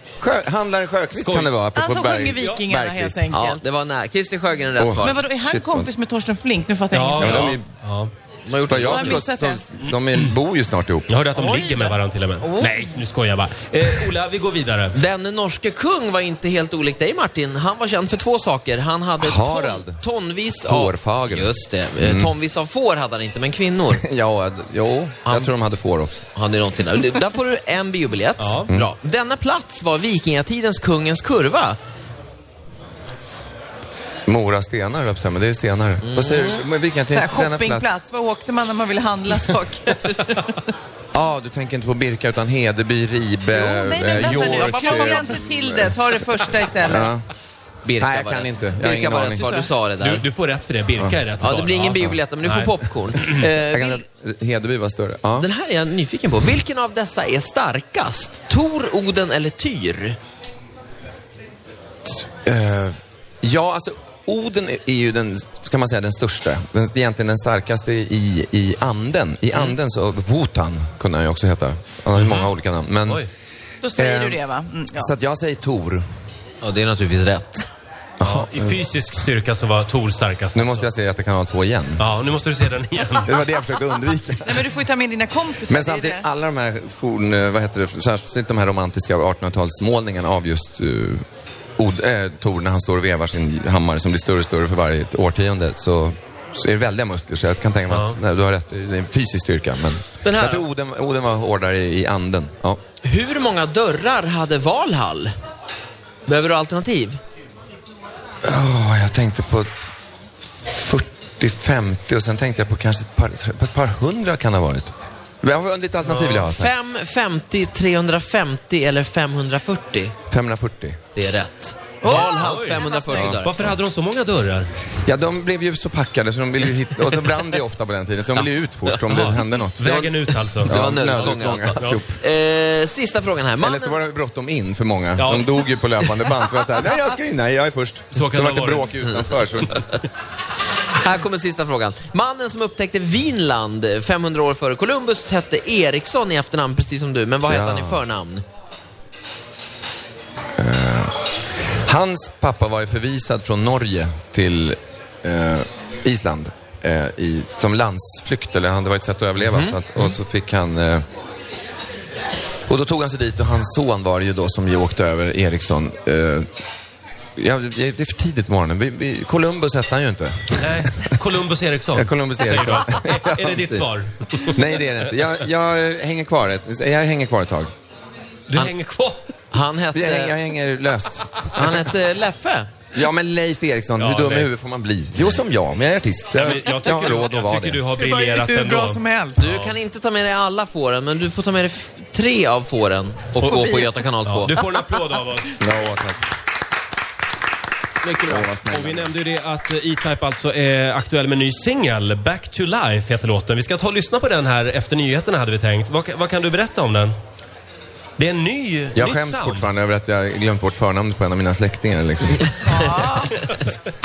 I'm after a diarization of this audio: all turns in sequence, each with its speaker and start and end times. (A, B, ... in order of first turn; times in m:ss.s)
0:00.2-0:03.2 A
0:01.1-0:01.5 B
0:01.7-0:03.6 C
0:03.3-0:05.2 D
0:04.8-0:05.9 A
0:05.0-0:07.5 C
0:06.9-0:08.1 B
0:07.2-0:07.7 A
0:07.2-0:07.5 D
0:08.4-0:09.2 D
0:08.7-0:11.1 A
0:08.9-0:09.6 C
0:11.1-0:15.0 B
0:11.4-0:12.0 C
0:14.9-0:24.0 D
0:19.2-0:20.0 A
0:20.6-0:22.3 A
0:23.9-0:26.2 A
0:25.2-0:25.5 D
0:26.3-0:31.8 D
0:28.4-0:28.7 B
0:34.3-0:37.9 A
0:36.0-0:36.6 D
0:37.1-0:40.7 C
0:41.1-0:46.2 A
0:43.5-0:47.1 C
0:44.2-0:45.2 D
0:46.8-0:47.2 A
0:47.8-0:50.3 D
0:48.0-0:49.6 A
0:50.0-0:53.5 B
0:51.0-0:51.3 A
0:51.4-0:54.0 D
0:53.6-0:55.5 A
0:55.4-1:00.2 D
1:02.2-1:13.2 A
1:12.1-1:12.5 B
1:13.8-1:15.1 C
1:14.0-1:16.0 A
1:16.6-1:17.7 D
1:18.2-1:18.8 A
1:18.2-1:20.9 B
1:20.5-1:22.0 A
1:22.0-1:23.4 B
1:23.2-1:24.7 A
1:24.4-1:26.2 C
1:25.6-1:31.2 A
1:31.8-1:42.8 A
1:37.9-1:38.2 B
1:40.2-1:40.6 D
1:43.0-1:45.3 D
1:46.3-1:47.2 D
1:48.4-1:49.7 A
1:50.4-1:56.7 A
1:56.0-1:56.4 B
1:56.4-2:00.1 D
2:00.3-2:01.0 A
2:01.1-2:03.7 D
2:02.0-2:03.1 C
2:02.0-2:04.7 B
2:03.1-2:03.4 A
2:05.0-2:10.0 A
2:08.3-2:09.0 D
2:09.1-2:12.0 B
2:09.8-2:14.0 D
2:10.6-2:12.2 A
2:13.6-2:20.0 A
2:15.2-2:15.6 B
2:18.1-2:19.8 B
2:20.9-2:28.4 D
2:27.4-2:28.0 A
2:30.6-2:31.1 A
2:31.7-2:41.0 A
2:39.4-2:39.8 D
2:42.7-2:46.5 A
2:47.4-2:51.1 A
2:50.6-2:55.1 B
2:51.9-2:53.9 A
2:54.5-2:57.7 A
2:58.5-2:59.2 B
2:59.5-3:00.3 D
2:59.9-3:01.6 A
3:01.5-3:02.7 D
3:02.9-3:07.8 A
3:04.0-3:04.5 B
3:06.3-3:09.8 B
3:08.0-3:09.4 C
3:09.4-3:14.5 D
3:13.4-3:15.6 B
3:13.4-3:13.9 C
3:14.6-3:14.8 C
3:15.6-3:16.2 A
3:18.0-3:18.4 D
3:18.2-3:27.1 B
3:18.3-3:19.1 A
3:28.2-3:29.7 B
3:28.9-3:32.5 A
3:32.6-3:33.5 C